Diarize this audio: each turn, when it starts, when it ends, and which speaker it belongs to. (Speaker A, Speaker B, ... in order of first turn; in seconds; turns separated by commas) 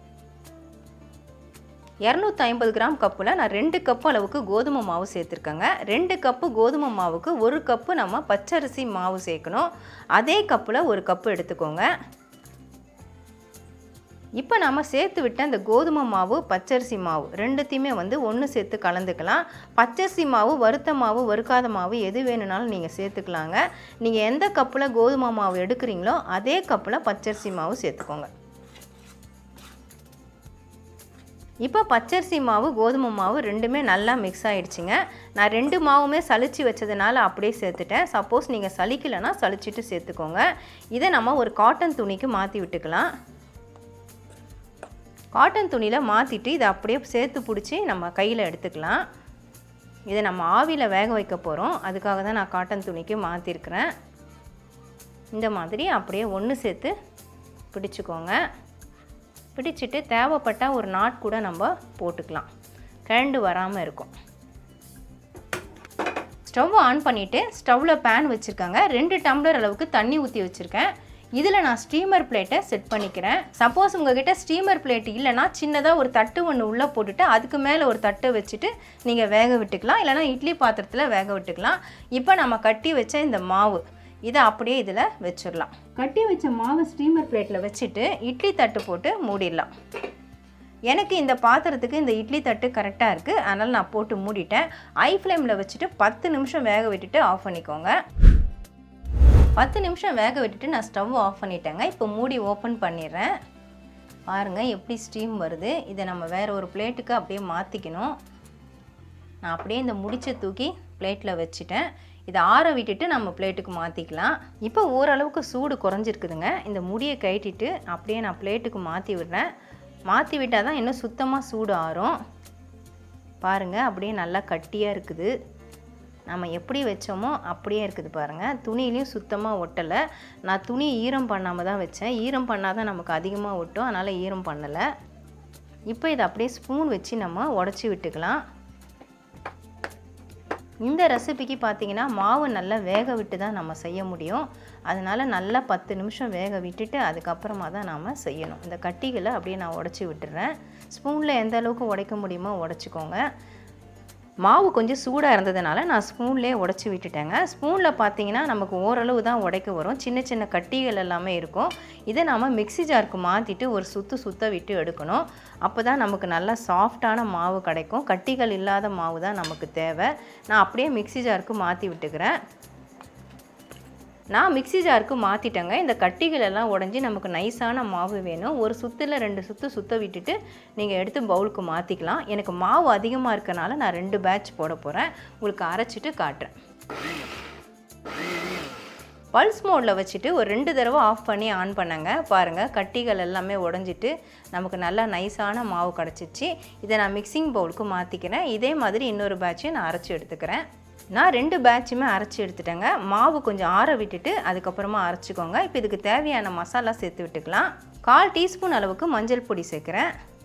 Speaker A: 2.0-11.8, Speaker A: 14.4-28.3, Speaker A: 31.6-43.1, Speaker A: 45.3-49.0, Speaker A: 50.1-53.9, Speaker A: 55.3-56.9, Speaker A: 57.7-58.4, Speaker A: 59.5-62.5, Speaker A: 63.1-64.1, Speaker A: 66.5-89.7, Speaker A: 90.9-97.9, Speaker A: 99.6-103.3, Speaker A: 104.3-108.1, Speaker A: 109.4-119.5, Speaker A: 120.1-122.2, Speaker A: 123.4-125.3, Speaker A: 126.3-134.9, Speaker A: 135.9-138.4, Speaker A: 140.8-153.2, Speaker A: 154.4-172.3, Speaker A: 174.3-186.5, Speaker A: 189.3-210.1